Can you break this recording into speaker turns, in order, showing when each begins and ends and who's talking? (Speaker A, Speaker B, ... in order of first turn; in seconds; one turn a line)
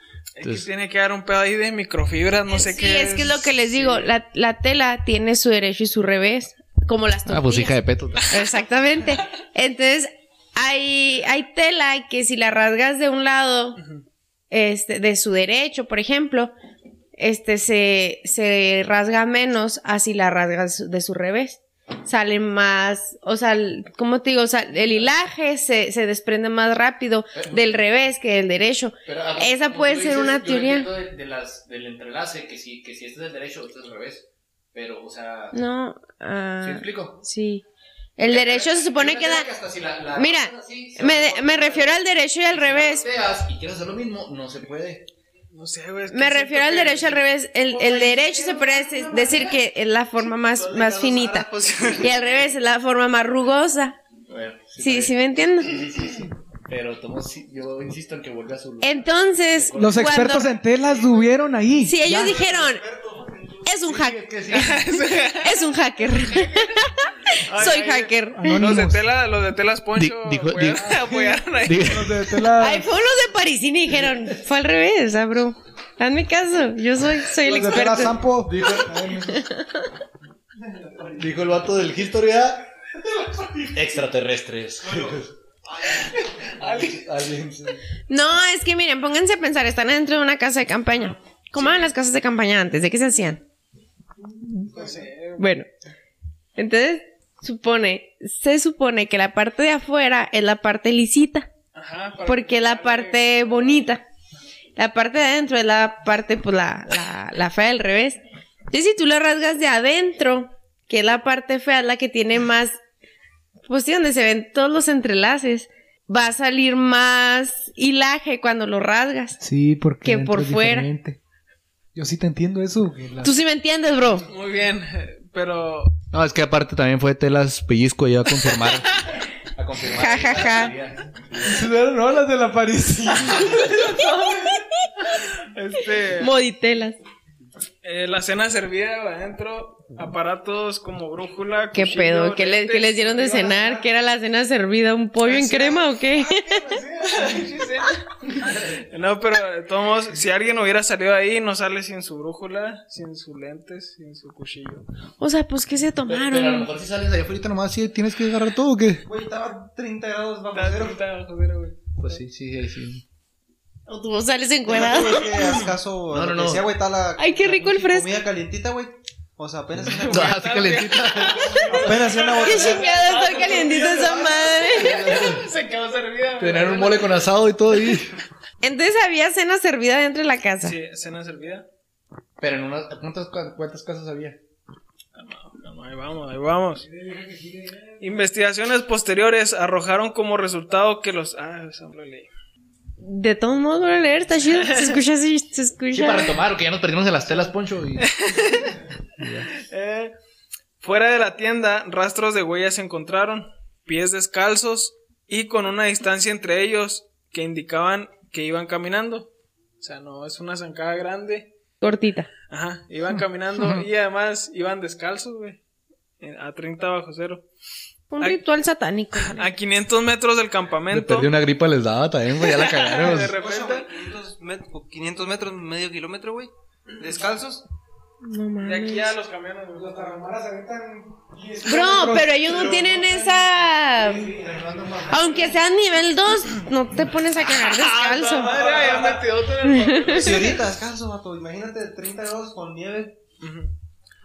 Speaker A: 0.4-4.1
Speaker B: 0.4-0.7
Speaker C: 2.5-13.8
Speaker B: 7.3-8.4
Speaker A: 13.8-14.0
Speaker C: 14.5-16.5
Speaker C: 17.2-30.9
Speaker B: 27.3-27.8
Speaker B: 29.1-35.5
Speaker C: 35.5-37.6
Speaker B: 36.6-37.2
Speaker C: 38.2-39.5
Speaker B: 38.2-41.9
Speaker C: 40.1-43.0
Speaker B: 42.5-45.1
Speaker A: 45.5-47.2
Speaker C: 46.1-54.0
Speaker D: 47.8-49.1
Speaker A: 50.4-52.4
Speaker B: 54.3-60.2
Speaker C: 54.8-55.8
Speaker C: 58.8-60.6
Speaker D: 59.8-62.5
Speaker C: 61.8-62.8
Speaker E: 62.3-63.6
Speaker C: 63.6-64.7
Speaker B: 63.8-64.8
Speaker A: 64.5-65.6
Speaker C: 65.3-68.9
Speaker A: 66.2-66.8
Speaker A: 67.5-72.1
Speaker D: 68.3-69.0
Speaker B: 69.9-72.5
Speaker D: 71.8-72.9
Speaker C: 72.6-78.2
Speaker D: 77.4-79.5
Speaker B: 78.4-79.1
Speaker C: 79.2-79.9
Speaker B: 81.1-82.6
Speaker B: 83.7-85.2
Speaker A: 85.9-87.0
Speaker B: 86.6-87.8
Speaker C: 88.1-93.4
Speaker A: 91.5-91.9
Speaker D: 94.6-95.0
Speaker A: 94.7-95.5
Speaker C: 95.4-95.7
Speaker C: 96.5-101.5
Speaker A: 101.7-103.5
Speaker C: 102.2-104.0
Speaker C: 104.8-112.8
Speaker C: 113.7-119.4
Speaker D: 119.4-121.2
Speaker C: 120.0-120.9
Speaker D: 121.9-123.3
Speaker C: 123.2-124.3
Speaker A: 124.3-126.0
Speaker B: 126.1-129.0
Speaker B: 129.5-131.5
Speaker C: 129.8-130.7
Speaker D: 131.4-134.0
Speaker A: 133.7-134.5
Speaker C: 133.8-134.7
Speaker A: 135.0-136.3
Speaker C: 136.2-137.0
Speaker A: 137.8-143.6
Speaker C: 141.7-146.8
Speaker A: 145.2-145.8
Speaker A: 147.0-154.8
Speaker C: 155.2-156.7
Speaker B: 156.1-159.0
Speaker E: 159.0-161.0
Speaker A: 160.5-161.9
Speaker B: 162.0-163.0
Speaker C: 163.9-165.6
Speaker E: 164.7-170.4
Speaker B: 166.1-166.7
Speaker C: 167.2-168.2
Speaker A: 169.9-177.2
Speaker B: 170.0-171.6
Speaker E: 171.7-173.2
Speaker C: 172.3-175.2
Speaker B: 174.7-175.4
Speaker B: 176.4-178.1
Speaker C: 178.6-180.8
Speaker A: 180.6-181.7
Speaker B: 182.4-184.4
Speaker A: 185.2-186.8
Speaker D: 186.8-188.0
Speaker A: 188.0-192.3
Speaker C: 193.0-196.4
Speaker A: 194.6-195.0
Speaker B: 195.9-198.1
Speaker A: 198.1-198.8
Speaker B: 199.2-199.5
Speaker A: 199.6-200.1
Speaker A: 200.8-211.5
Speaker C: 211.8-212.3
Speaker A: 212.5-215.6
Speaker A: 216.2-217.4
Speaker C: 218.1-219.5
Speaker A: 219.2-221.3
Speaker B: 220.9-223.3
Speaker A: 222.4-223.9
Speaker E: 223.2-227.6
Speaker C: 228.2-229.1
Speaker A: 228.6-230.3
Speaker D: 229.7-235.6
Speaker C: 231.6-234.3
Speaker E: 232.5-233.2
Speaker C: 235.1-238.8
Speaker A: 237.4-240.5
Speaker E: 238.7-239.2
Speaker C: 239.6-240.5
Speaker E: 240.0-243.2
Speaker A: 243.4-243.7